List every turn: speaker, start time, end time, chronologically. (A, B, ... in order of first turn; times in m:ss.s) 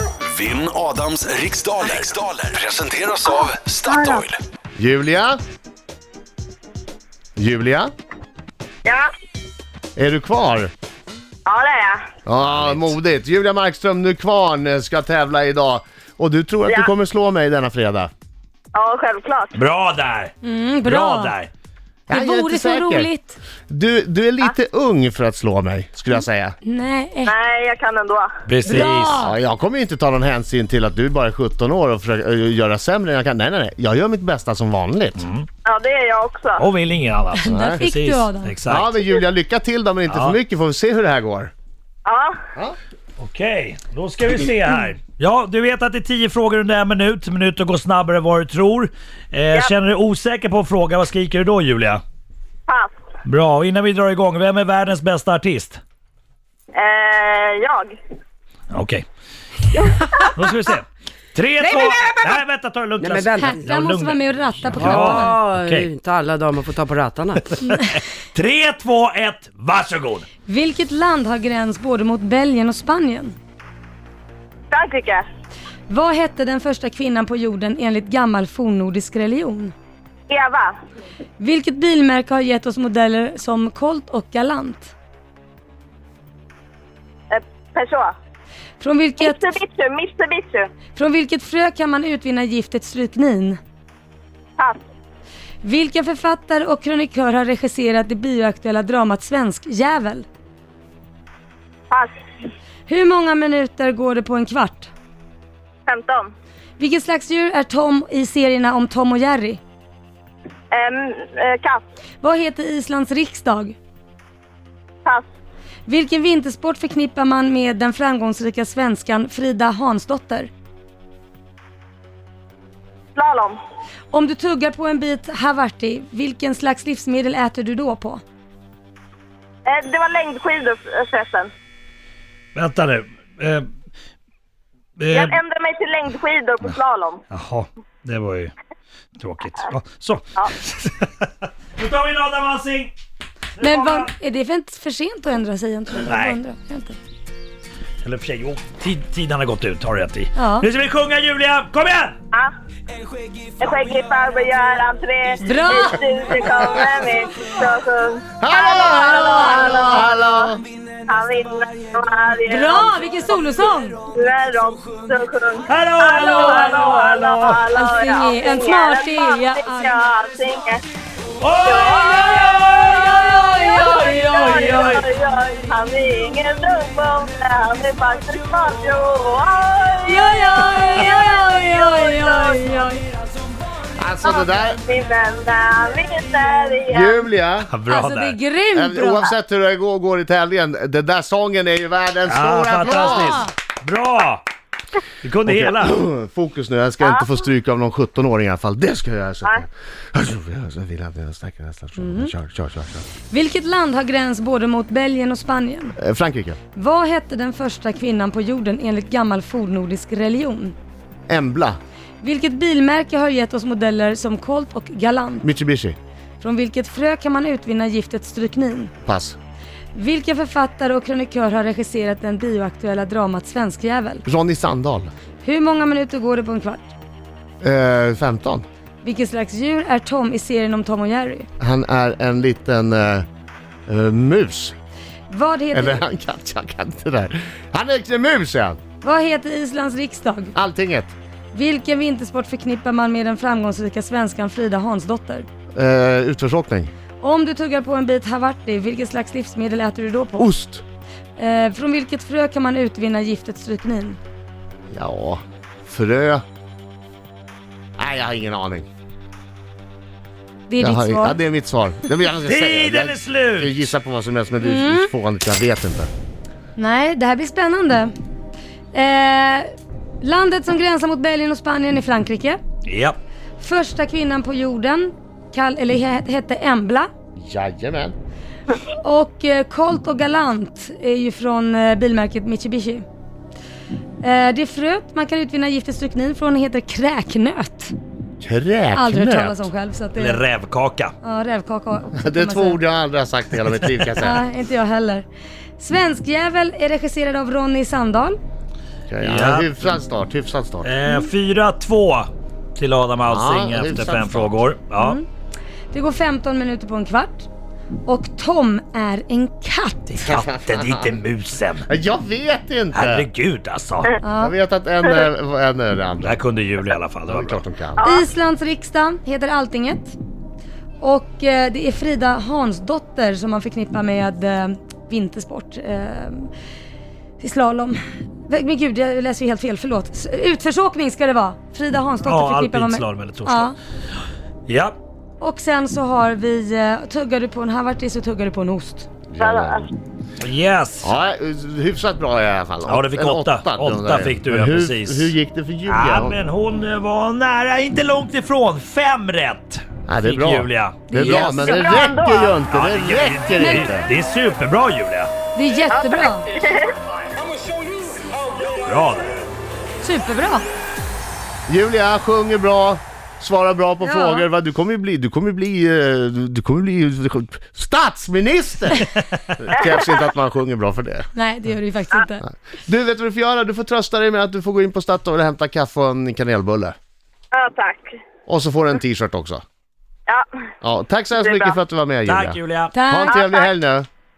0:00.3-0:04.4 A
0:03.3-0:04.2 B
0:04.8-0:05.4 C
0:07.4-0:07.9 C
0:10.0-0:10.7 C
0:11.5-0:12.0 B
0:12.3-0:18.1 C
0:12.4-0:13.0 D
0:18.7-0:19.5 B
0:19.5-0:20.3 D
0:20.4-0:21.3 E
0:20.8-0:21.5 D
0:22.1-0:23.1 C
0:22.1-0:23.4 E
0:23.7-0:26.6 C
0:26.6-0:27.3 E
0:27.3-0:28.3 B
0:28.5-0:29.2 D
0:28.6-0:29.3 E
0:29.2-0:35.2 C
0:35.2-0:35.5 D
0:35.6-0:36.6 B
0:36.6-0:38.9 D
0:37.4-0:38.5 E
0:37.5-0:37.8 C
0:38.6-0:41.5 C
0:40.1-0:40.4 D
0:42.0-0:42.3 B
0:43.2-0:52.0 D
0:52.7-0:52.9 B
0:53.2-0:55.8 D
0:56.7-0:58.0 B
0:58.7-0:59.0 D
0:59.8-1:00.2 B
1:00.2-1:05.9 D
1:01.6-1:02.3 F
1:03.0-1:03.6 F
1:03.4-1:05.4 E
1:04.8-1:07.6 F
1:07.5-1:10.3 D
1:10.5-1:13.4 E
1:14.7-1:15.3 B
1:15.9-1:19.7 E
1:20.3-1:20.8 B
1:21.4-1:24.9 E
1:27.3-1:28.2 B
1:28.8-1:29.5 E
1:29.2-1:30.7 B
1:31.0-1:33.6 E
1:35.6-1:40.3 E
1:42.9-1:44.9 E
1:45.9-1:46.3 B
1:46.8-1:49.6 E
1:50.7-1:51.8 B
1:52.2-1:53.8 E
1:55.9-2:00.5 E
2:03.2-2:03.6 B
2:04.1-2:08.2 E
2:09.6-2:11.5 B
2:12.6-2:13.7 D
2:15.0-2:15.4 D
2:15.1-2:17.2 B
2:17.3-2:18.5 D
2:19.2-2:22.9 D
2:23.6-2:24.1 D
2:23.6-2:27.0 E
2:26.1-2:26.4 D
2:28.0-2:32.2 D
2:30.4-2:30.7 E
2:33.6-2:40.5 B
2:35.4-2:36.0 E
2:38.4-2:40.6 C
2:41.0-2:42.9 B
2:42.5-2:44.0 E
2:44.2-2:50.8 B
2:45.7-2:47.6 D
2:46.2-2:46.7 E
2:47.7-2:50.0 E
2:51.4-2:55.0 D
2:51.6-3:02.6 B
2:52.8-2:54.5 E
3:00.1-3:03.1 E
3:03.9-3:04.8 C
3:04.2-3:07.2 B
3:06.9-3:07.7 C
3:07.6-3:08.4 D
3:07.9-3:09.3 E
3:08.8-3:13.5 C
3:12.2-3:14.4 D
3:12.8-3:13.5 E
3:15.2-3:16.0 D
3:15.4-3:23.1 C
3:17.0-3:17.3 B
3:22.0-3:22.3 E
3:23.3-3:26.0 E
3:26.0-3:26.6 C
3:26.8-3:30.8 E
3:31.3-3:31.8 C
3:32.2-3:35.5 E
3:35.4-3:36.0 C
3:36.4-3:38.9 E
3:39.0-3:39.4 C
3:40.0-3:44.2 E
3:44.3-3:45.1 C
3:45.4-3:46.9 E
3:47.6-3:48.6 C
3:49.0-3:51.5 E
3:51.6-3:53.3 C
3:53.9-3:54.8 C
3:55.3-3:56.0 E
3:55.7-3:58.8 C
3:59.0-4:00.5 E
4:00.6-4:01.2 C
4:01.5-4:05.5 E
4:05.8-4:06.9 C
4:07.2-4:10.5 E
4:10.4-4:10.8 C
4:11.4-4:14.2 E
4:14.9-4:16.4 C
4:18.0-4:18.9 C
4:20.7-4:21.4 E
4:20.8-4:26.1 C
4:22.4-4:23.8 D
4:24.6-4:25.1 E
4:26.8-4:28.1 E
4:28.9-4:29.7 E
4:30.2-4:32.6 E
4:32.8-4:33.2 D
4:33.6-4:37.1 E
4:37.4-4:38.2 C
4:39.0-4:43.1 E
4:44.2-4:47.9 E
4:48.4-4:49.7 C
4:48.9-4:50.4 E
4:50.2-4:51.1 D
4:51.2-4:52.8 E
4:52.2-4:54.4 C
4:54.2-4:55.3 E
4:55.8-4:58.4 E
4:59.1-5:00.9 C
4:59.2-4:59.7 D
5:00.8-5:05.2 D
5:03.2-5:04.6 C
5:05.0-5:05.2 E
5:05.9-5:07.5 E
5:08.0-5:10.3 E
5:10.2-5:11.9 D
5:10.2-5:11.2 C
5:11.9-5:13.3 C
5:12.9-5:14.2 D
5:14.2-5:14.5 E
5:14.4-5:16.4 C
5:16.2-5:17.6 D
5:17.3-5:18.0 C
5:18.0-5:18.3 B
5:18.0-5:20.2 E
5:21.0-5:26.5 E
5:27.4-5:33.8 E
5:32.2-5:33.7 D
5:34.7-5:35.0 D
5:35.4-5:39.1 E
5:39.3-5:39.9 C
5:39.4-5:39.8 B
5:40.4-5:41.1 D
5:41.0-5:46.4 C
5:42.9-5:45.3 D
5:45.9-5:51.7 D
5:50.1-5:54.1 C
5:51.2-5:51.8 E
5:51.6-5:52.6 B
5:52.7-5:55.3 D
5:53.6-5:53.9 E
5:55.6-5:56.5 E
5:55.9-5:56.9 B
5:58.8-5:59.5 D
6:00.0-6:00.6 E
6:01.7-6:11.3 C
6:04.0-6:04.5 E
6:11.4-6:12.5 E
6:12.4-6:17.0 C
6:17.5-6:18.1 B
6:18.5-6:19.6 C
6:20.8-6:24.1 C
6:21.4-6:21.8 B
6:22.3-6:22.9 D
6:22.9-6:23.4 E
6:23.3-6:23.7 B